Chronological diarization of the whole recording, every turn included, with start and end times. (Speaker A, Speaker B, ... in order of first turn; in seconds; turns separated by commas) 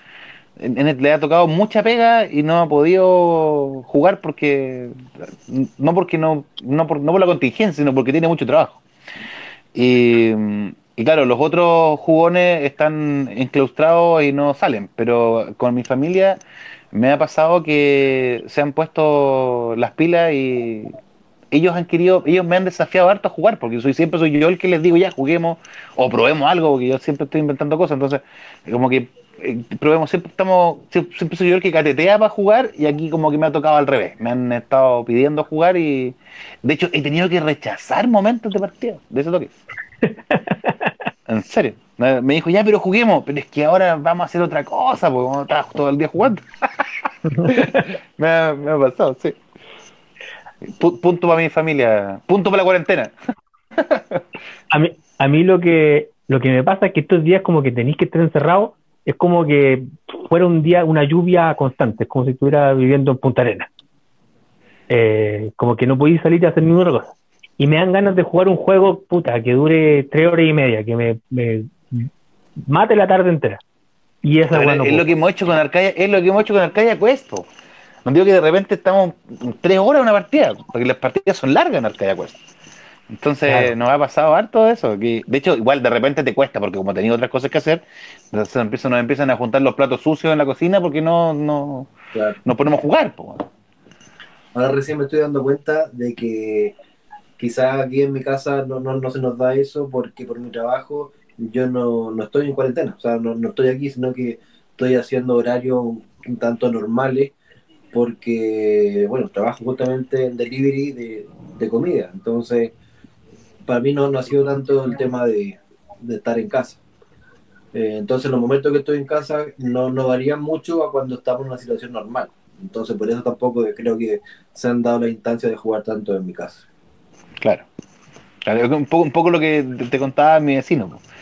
Speaker A: 0.6-8.8, Speaker A: 9.7-16.4, Speaker A: 16.9-20.9, Speaker A: 21.5-39.5, Speaker B: 40.1-40.9, Speaker A: 41.3-46.4, Speaker B: 47.3-47.9, Speaker A: 47.5-49.4, Speaker A: 50.6-53.1, Speaker A: 53.8-54.2, Speaker B: 54.7-63.7, Speaker B: 64.9-72.1, Speaker B: 72.7-73.6, Speaker B: 74.2-75.0, Speaker A: 74.5-77.5, Speaker A: 78.0-82.4, Speaker A: 83.1-91.9, Speaker B: 83.5-83.8, Speaker C: 92.1-92.4, Speaker A: 92.5-93.5, Speaker C: 94.5-96.8, Speaker C: 97.4-107.3, Speaker C: 107.9-112.7, Speaker C: 113.7-116.8, Speaker C: 117.7-126.6, Speaker A: 127.4-127.7, Speaker A: 128.4-131.0